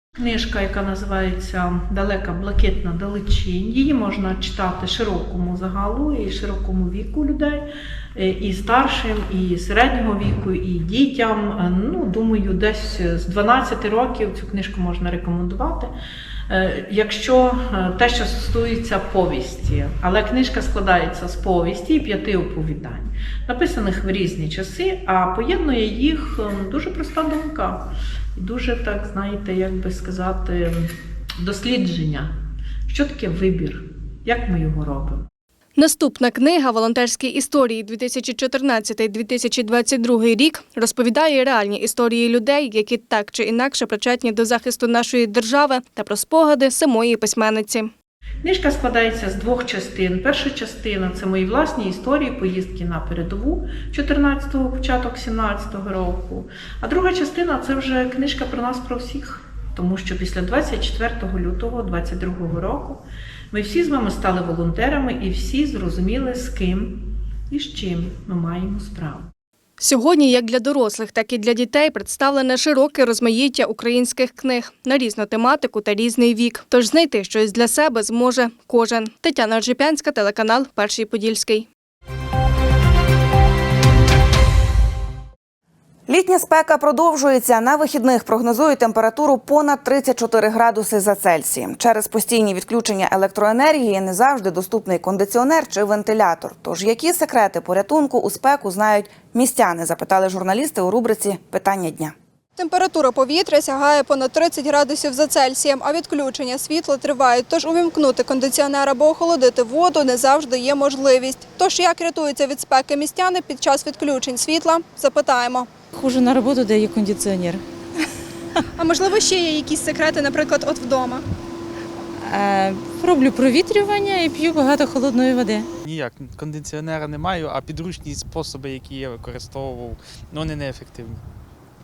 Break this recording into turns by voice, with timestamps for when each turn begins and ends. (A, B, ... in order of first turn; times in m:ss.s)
0:00.2-0:15.9 A
0:16.5-0:32.4 A
0:32.9-0:35.3 A
0:35.8-0:47.9 B
0:48.4-1:09.3 A
1:09.8-1:21.7 B
1:26.1-1:42.1 C
1:42.6-1:55.7 D
1:55.9-1:57.6 E
1:58.8-2:01.2 D
2:02.2-2:05.6 E
2:05.8-2:11.2 F